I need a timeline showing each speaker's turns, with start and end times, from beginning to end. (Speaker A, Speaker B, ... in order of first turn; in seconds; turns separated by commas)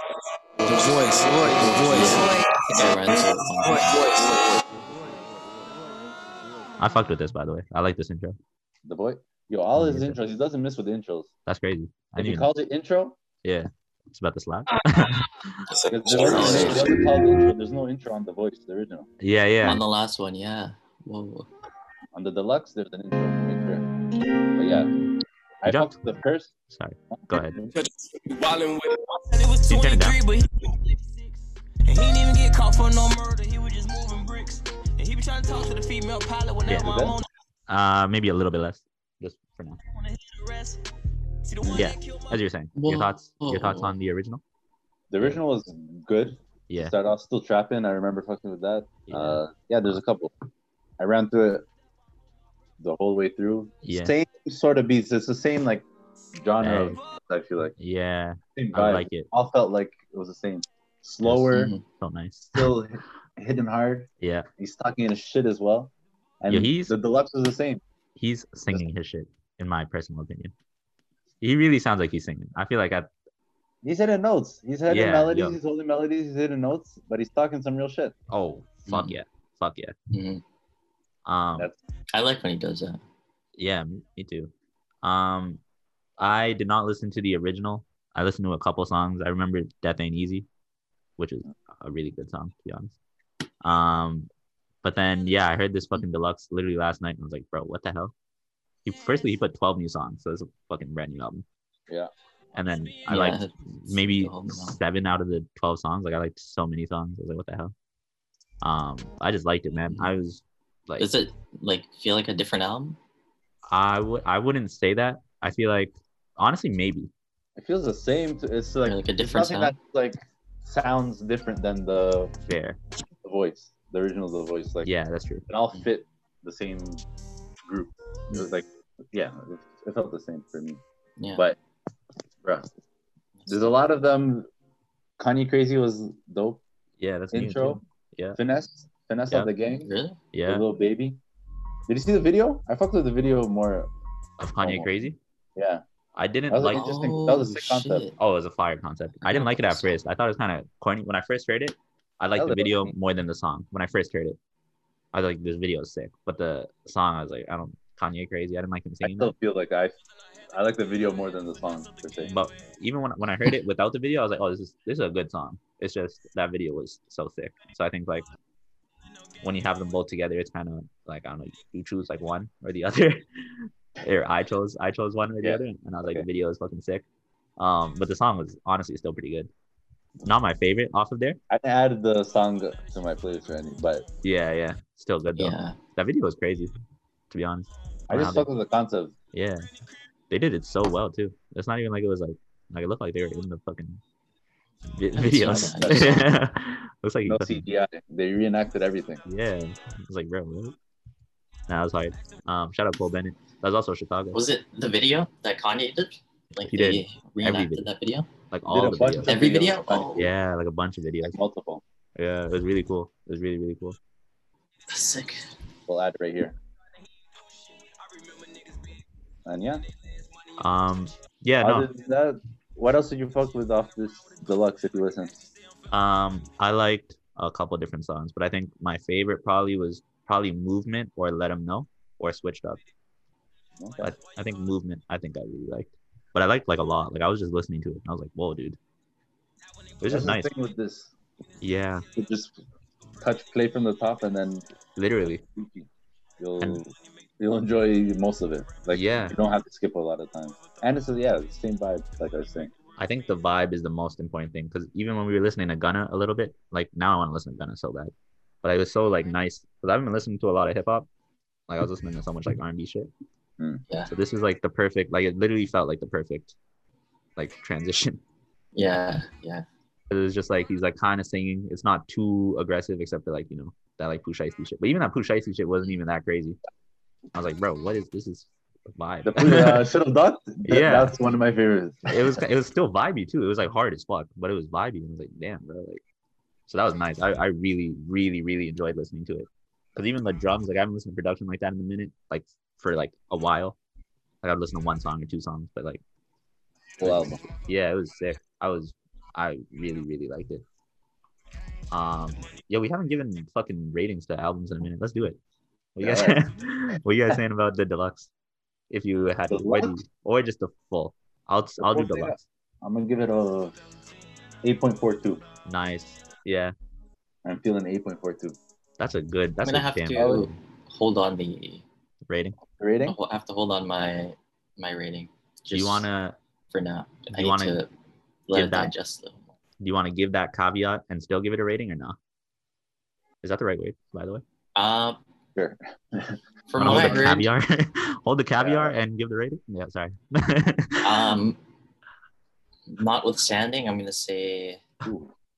Speaker A: 0.6-2.5, Speaker B: 1.9-3.9, Speaker A: 3.6-4.6, Speaker C: 6.8-8.4, Speaker D: 8.8-11.3, Speaker C: 9.8-10.2, Speaker C: 11.4-12.5, Speaker D: 12.2-13.2, Speaker C: 13.4-15.3, Speaker A: 15.9-17.0, Speaker D: 15.9-19.1, Speaker B: 16.2-16.9, Speaker C: 19.2-19.8, Speaker B: 19.6-21.5, Speaker D: 22.1-23.9, Speaker D: 24.5-24.9, Speaker D: 25.6-26.5, Speaker C: 25.6-26.0, Speaker C: 26.6-27.6, Speaker D: 27.1-27.7, Speaker A: 28.5-28.8, Speaker E: 29.2-30.4, Speaker C: 29.6-30.2, Speaker E: 31.9-37.2, Speaker C: 36.6-37.1, Speaker D: 36.7-37.2, Speaker C: 37.7-39.8, Speaker E: 40.0-40.8, Speaker E: 41.5-42.4, Speaker C: 41.7-44.4, Speaker B: 42.7-43.9, Speaker D: 45.1-50.3, Speaker C: 46.7-46.9, Speaker C: 49.1-50.0, Speaker D: 51.0-51.7, Speaker D: 52.8-57.7, Speaker C: 53.8-54.1, Speaker C: 56.6-57.0, Speaker C: 57.8-59.3, Speaker D: 58.5-61.7, Speaker C: 61.2-62.7, Speaker B: 61.5-61.8, Speaker D: 62.5-67.8, Speaker C: 64.2-64.5, Speaker C: 66.5-66.9, Speaker C: 68.2-70.5, Speaker C: 71.4-73.1, Speaker D: 73.8-78.1, Speaker C: 74.9-75.5, Speaker C: 78.3-79.9, Speaker B: 78.8-79.2, Speaker B: 80.1-80.4, Speaker C: 81.2-81.7, Speaker B: 82.1-83.0, Speaker C: 83.6-84.5, Speaker C: 85.0-85.6, Speaker C: 86.2-90.5, Speaker C: 91.2-93.0, Speaker C: 93.6-94.3, Speaker C: 94.8-98.1, Speaker C: 98.8-101.4, Speaker C: 102.5-107.7, Speaker B: 103.0-104.8, Speaker C: 108.6-111.1, Speaker B: 111.0-113.0, Speaker C: 113.7-117.1, Speaker D: 117.5-122.3, Speaker B: 118.8-119.8, Speaker C: 122.5-122.8, Speaker D: 123.2-124.9, Speaker C: 124.8-125.4, Speaker D: 125.5-127.0, Speaker D: 127.6-130.8, Speaker B: 133.4-133.7, Speaker D: 133.5-134.5, Speaker D: 135.2-136.6, Speaker C: 137.0-138.4, Speaker D: 137.3-137.8, Speaker D: 138.3-139.9, Speaker B: 139.8-140.2, Speaker C: 140.3-140.6, Speaker D: 140.4-141.2, Speaker D: 141.9-143.9, Speaker C: 144.4-145.2, Speaker D: 144.6-144.9, Speaker D: 145.6-145.8, Speaker C: 146.2-146.8, Speaker D: 146.5-148.1, Speaker B: 146.7-148.1, Speaker C: 148.2-154.4, Speaker B: 149.2-150.0, Speaker D: 152.4-152.9, Speaker C: 155.1-159.3, Speaker D: 159.0-162.3, Speaker C: 162.2-168.2, Speaker C: 169.4-177.0, Speaker D: 175.4-176.2, Speaker C: 177.6-179.5, Speaker C: 180.2-181.4, Speaker D: 181.5-184.1, Speaker C: 184.2-186.7, Speaker B: 185.3-185.8, Speaker C: 187.3-188.5, Speaker D: 188.1-189.2, Speaker C: 189.3-189.7, Speaker C: 190.3-194.0, Speaker C: 194.8-197.6, Speaker B: 195.1-196.2, Speaker D: 195.5-196.3, Speaker D: 197.2-199.2, Speaker C: 199.3-200.7, Speaker C: 201.7-204.4, Speaker B: 204.3-208.3, Speaker C: 206.6-207.9, Speaker C: 208.5-209.3, Speaker D: 208.7-210.3, Speaker B: 209.2-210.3, Speaker C: 210.2-211.3, Speaker D: 211.2-211.8, Speaker C: 212.2-214.0, Speaker B: 214.9-215.5, Speaker D: 215.9-216.6, Speaker D: 219.4-219.8, Speaker C: 220.6-221.9, Speaker D: 221.6-225.4, Speaker C: 225.9-232.8, Speaker D: 233.8-234.1, Speaker C: 234.0-238.8, Speaker C: 240.0-240.5, Speaker D: 240.0-241.1, Speaker C: 241.6-242.1, Speaker D: 242.2-242.6, Speaker D: 243.2-244.7, Speaker C: 244.9-245.4, Speaker D: 245.5-245.9, Speaker D: 246.4-252.7, Speaker C: 248.9-249.3, Speaker C: 252.9-258.1, Speaker C: 258.6-261.1, Speaker C: 261.7-263.1, Speaker C: 264.1-266.5, Speaker C: 267.4-268.2, Speaker B: 268.7-269.6, Speaker C: 270.1-276.6, Speaker C: 277.3-279.9, Speaker D: 279.2-282.4, Speaker C: 280.6-281.1, Speaker C: 282.1-286.0, Speaker C: 286.7-293.8, Speaker C: 294.4-296.0, Speaker D: 297.0-297.4, Speaker C: 297.0-300.6, Speaker C: 301.9-305.4, Speaker C: 305.9-308.3, Speaker D: 306.0-306.4, Speaker C: 308.9-312.4, Speaker D: 309.5-310.0, Speaker D: 311.8-313.8, Speaker D: 314.6-315.4, Speaker C: 315.6-316.7, Speaker D: 317.4-318.6, Speaker C: 319.0-320.5, Speaker B: 319.6-321.8, Speaker D: 320.1-320.4, Speaker C: 322.2-322.6, Speaker D: 322.7-323.2, Speaker B: 323.1-326.1, Speaker C: 325.7-326.4, Speaker B: 326.7-327.9, Speaker C: 327.3-327.8, Speaker B: 328.5-329.4, Speaker C: 328.5-328.9, Speaker C: 329.8-332.1, Speaker C: 333.4-334.4, Speaker B: 334.7-335.2, Speaker D: 335.6-337.3, Speaker B: 336.7-337.5, Speaker C: 336.8-341.3, Speaker D: 338.6-339.0, Speaker B: 341.0-341.6, Speaker B: 342.9-344.8, Speaker D: 345.0-345.3